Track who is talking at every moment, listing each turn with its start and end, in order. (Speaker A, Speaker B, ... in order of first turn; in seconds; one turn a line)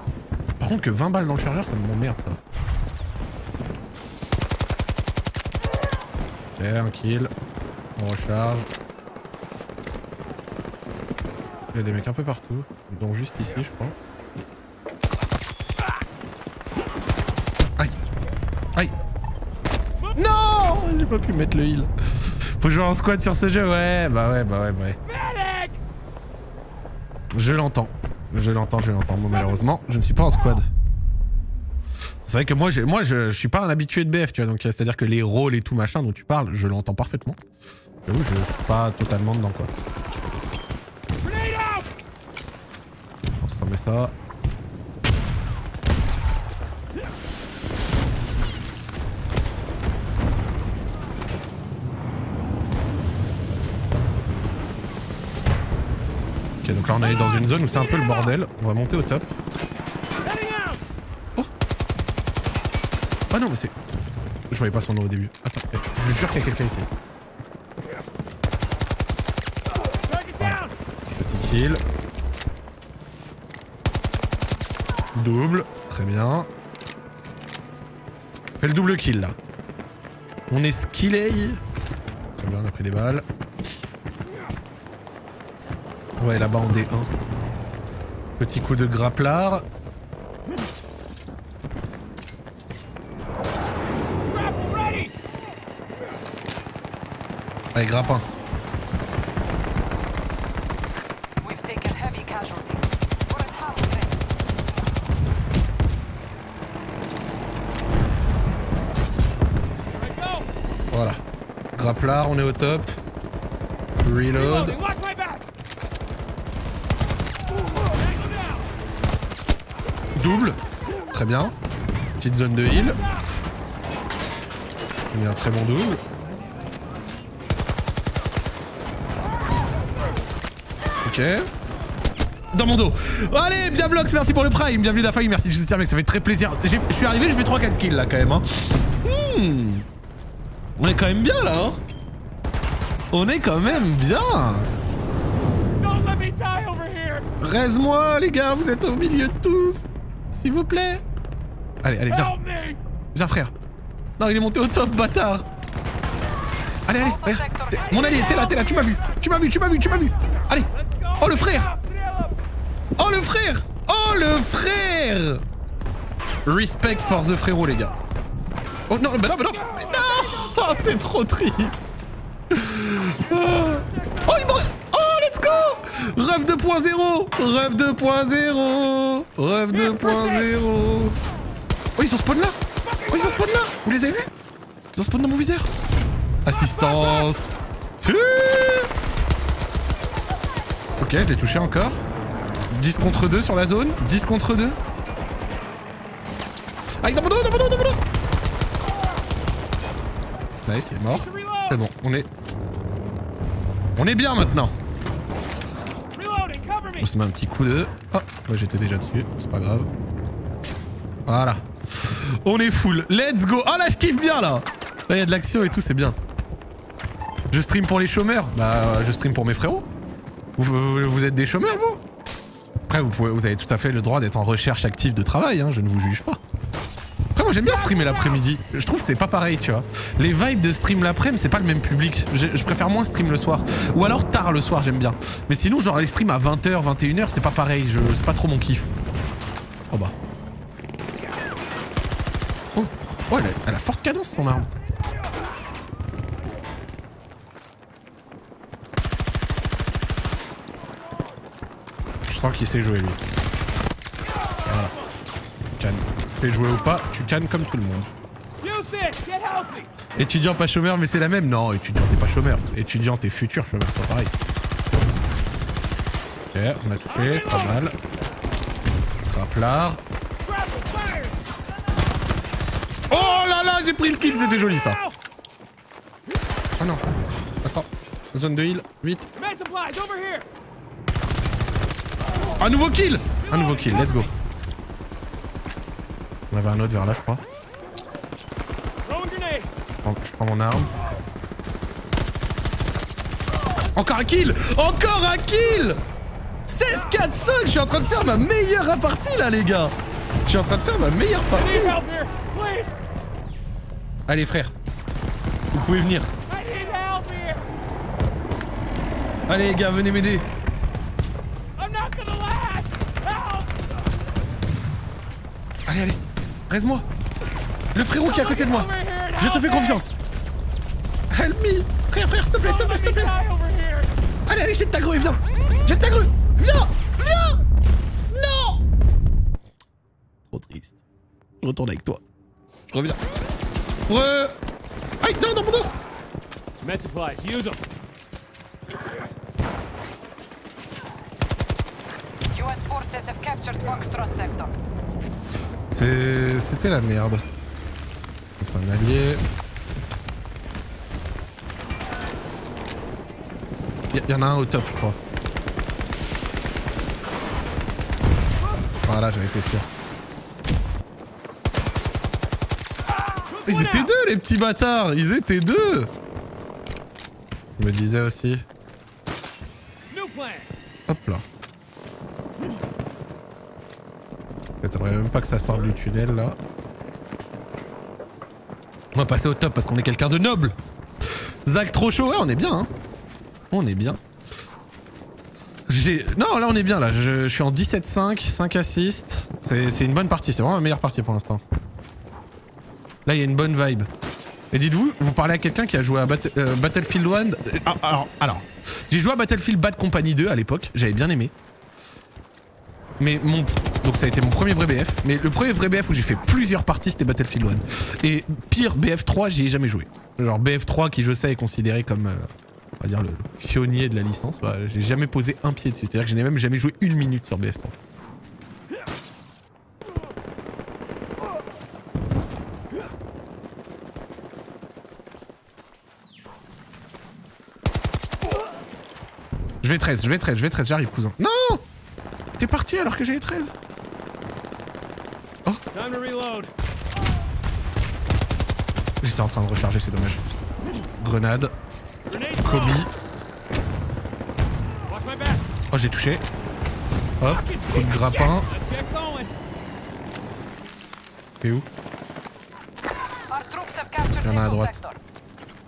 Speaker A: 0.6-2.4
Speaker A: 6.5-7.3
Speaker A: 8.0-8.7
Speaker A: 11.7-13.9
Speaker A: 20.1-25.0
Speaker B: 25.1-25.8
Speaker A: 27.3-30.7
Speaker A: 32.2-37.4
Speaker A: 38.0-39.7
Speaker B: 41.2-41.9
Speaker A: 43.4-44.1
Speaker A: 56.6-59.3
Speaker B: 60.2-60.8
Speaker A: 63.3-63.7
Speaker A: 64.5-66.9
Speaker B: 69.8-70.7
Speaker A: 70.4-71.8
Speaker A: 75.1-76.5
Speaker A: 78.6-79.3
Speaker A: 80.5-81.6
Speaker A: 82.3-83.2
Speaker A: 86.2-87.1
Speaker A: 88.4-89.6
Speaker B: 94.2-95.2
Speaker A: 97.7-98.2
Speaker C: 101.4-104.2
Speaker B: 109.8-110.5
Speaker A: 110.9-111.2
Speaker A: 111.7-113.0
Speaker A: 114.0-114.8
Speaker B: 114.3-115.5
Speaker B: 117.7-118.7
Speaker A: 120.2-120.6
Speaker A: 121.1-121.5
Speaker A: 122.2-123.0
Speaker A: 125.1-126.0
Speaker A: 131.0-131.5
Speaker A: 132.5-139.8
Speaker A: 140.8-141.8
Speaker A: 143.1-144.7
Speaker B: 145.7-147.3
Speaker A: 147.4-151.0
Speaker A: 151.8-152.4
Speaker B: 152.1-152.8
Speaker A: 153.1-153.5
Speaker A: 154.2-155.4
Speaker A: 156.9-161.7
Speaker C: 157.0-158.3
Speaker B: 158.2-158.9
Speaker B: 160.7-162.4
Speaker A: 162.9-165.4
Speaker A: 166.4-167.9
Speaker A: 168.9-181.2
Speaker B: 169.7-170.6
Speaker B: 174.0-174.5
Speaker B: 179.9-180.4
Speaker A: 182.0-184.3
Speaker B: 182.8-183.4
Speaker A: 184.9-185.7
Speaker A: 186.4-188.9
Speaker A: 191.0-192.0
Speaker A: 192.7-194.8
Speaker A: 197.0-198.0
Speaker A: 200.6-202.3
Speaker B: 201.1-201.8
Speaker A: 203.9-204.7
Speaker B: 206.0-207.1
Speaker A: 207.0-209.9
Speaker A: 211.2-216.2
Speaker A: 217.5-219.8
Speaker A: 220.6-222.0
Speaker A: 222.9-226.4
Speaker A: 227.3-238.9
Speaker B: 227.7-228.4
Speaker A: 239.9-240.1
Speaker A: 242.7-244.7
Speaker A: 252.3-253.2
Speaker A: 254.7-254.9
Speaker A: 255.7-258.1
Speaker B: 258.6-259.9
Speaker A: 260.1-264.3
Speaker A: 266.5-267.9
Speaker B: 267.1-267.8
Speaker A: 269.3-270.0
Speaker B: 270.4-271.4
Speaker A: 273.1-275.0
Speaker B: 274.7-275.1
Speaker A: 276.8-277.0
Speaker A: 277.6-279.3
Speaker B: 279.3-280.5
Speaker A: 282.6-284.3
Speaker B: 283.5-284.2
Speaker A: 286.5-287.4
Speaker B: 289.0-289.7
Speaker A: 290.0-290.9
Speaker A: 293.9-296.0
Speaker A: 296.6-302.0
Speaker B: 301.5-303.0
Speaker A: 304.3-304.7
Speaker A: 305.7-306.3
Speaker B: 306.5-307.7
Speaker A: 309.5-310.5
Speaker B: 311.8-314.2
Speaker A: 315.9-317.1
Speaker A: 317.9-320.1
Speaker B: 318.2-320.0
Speaker A: 321.3-323.3
Speaker B: 322.6-324.1
Speaker A: 324.5-327.6
Speaker A: 328.3-328.8
Speaker A: 330.5-331.0
Speaker A: 331.6-332.2
Speaker A: 332.9-333.2
Speaker A: 334.1-334.6
Speaker A: 335.2-335.9
Speaker B: 336.8-337.8
Speaker C: 342.5-344.7
Speaker A: 345.9-347.4
Speaker A: 348.6-349.4
Speaker A: 354.1-355.2
Speaker A: 359.0-359.9
Speaker B: 363.1-364.1
Speaker A: 363.6-366.1
Speaker A: 367.8-368.6
Speaker B: 370.1-370.7
Speaker A: 371.1-371.4
Speaker A: 374.8-376.6
Speaker A: 379.1-380.8
Speaker A: 381.3-382.9
Speaker A: 383.7-384.2
Speaker A: 385.9-391.6
Speaker A: 393.2-394.1
Speaker A: 394.7-401.5
Speaker A: 403.2-412.5
Speaker A: 413.0-417.9
Speaker A: 429.8-431.8
Speaker A: 432.6-433.7
Speaker B: 435.9-436.7
Speaker A: 439.2-440.4
Speaker A: 441.2-441.7
Speaker B: 442.3-443.0
Speaker A: 442.6-443.1
Speaker B: 445.1-445.6
Speaker A: 445.9-446.4
Speaker A: 447.4-448.7
Speaker B: 447.4-449.5
Speaker A: 451.6-451.9
Speaker C: 453.5-455.2
Speaker A: 454.4-454.9